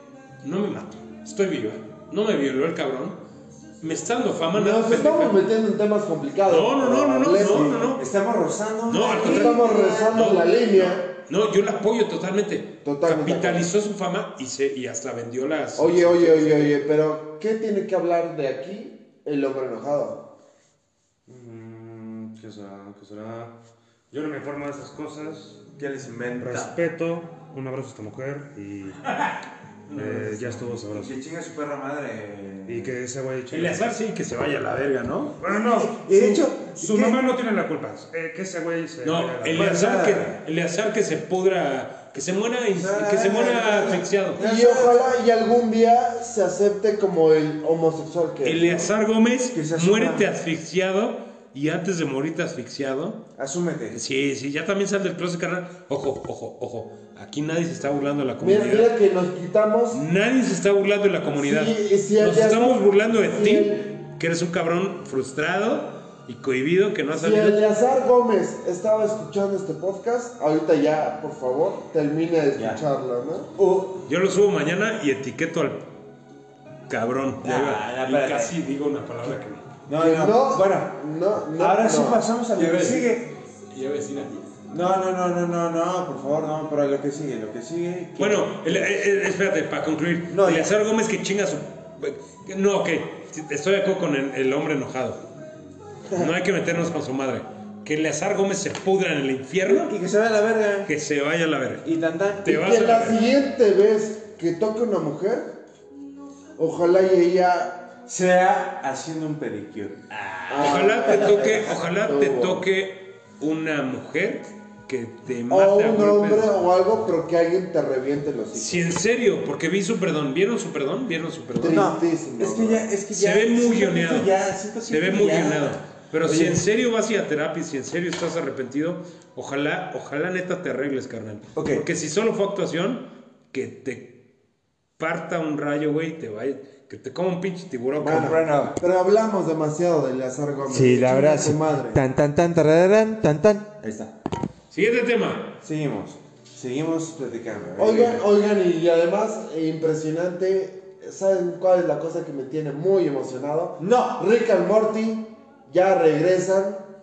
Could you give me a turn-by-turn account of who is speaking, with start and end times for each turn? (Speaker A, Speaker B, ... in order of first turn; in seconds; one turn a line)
Speaker A: 0.4-3.2
Speaker A: 3.8-5.4
Speaker B: 4.5-7.9
Speaker A: 6.5-8.0
Speaker C: 7.4-10.3
Speaker A: 8.9-16.8
Speaker B: 9.2-11.1
Speaker B: 12.8-13.7
Speaker B: 15.8-20.3
Speaker D: 21.3-23.5
Speaker D: 24.1-25.6
Speaker C: 25.8-26.7
Speaker D: 26.4-29.1
Speaker A: 29.1-30.7
Speaker D: 29.9-31.2
Speaker C: 30.9-33.0
Speaker D: 32.7-33.9
Speaker A: 33.5-35.4
Speaker D: 35.4-39.7
Speaker C: 35.4-37.2
Speaker A: 39.0-44.4
Speaker C: 39.5-40.4
Speaker C: 42.7-45.1
Speaker B: 44.4-48.9
Speaker A: 48.4-53.2
Speaker C: 49.5-50.3
Speaker C: 53.4-54.0
Speaker A: 53.9-58.9
Speaker B: 58.4-60.0
Speaker A: 59.9-67.6
Speaker B: 61.4-63.9
Speaker B: 67.1-73.5
Speaker C: 72.6-72.8
Speaker C: 73.6-74.0
Speaker A: 74.1-75.9
Speaker A: 76.9-79.7
Speaker C: 77.4-78.6
Speaker C: 79.2-81.0
Speaker B: 80.0-82.2
Speaker C: 81.5-83.4
Speaker A: 82.6-83.1
Speaker A: 83.7-84.5
Speaker C: 84.7-89.0
Speaker A: 88.2-95.2
Speaker C: 90.3-90.7
Speaker A: 96.1-99.9
Speaker C: 99.7-100.9
Speaker A: 100.9-101.8
Speaker C: 101.8-102.5
Speaker A: 102.4-103.2
Speaker B: 102.5-105.6
Speaker B: 106.6-107.9
Speaker C: 108.1-111.8
Speaker B: 110.5-112.7
Speaker A: 110.6-116.5
Speaker B: 115.5-118.9
Speaker A: 118.5-121.9
Speaker B: 121.6-122.9
Speaker C: 121.7-126.6
Speaker A: 123.1-124.3
Speaker A: 124.8-134.2
Speaker C: 131.6-131.9
Speaker A: 135.0-138.4
Speaker B: 138.0-142.0
Speaker C: 138.1-138.8
Speaker C: 140.7-144.1
Speaker A: 144.7-145.6
Speaker C: 145.6-148.2
Speaker B: 147.8-156.9
Speaker C: 153.8-154.2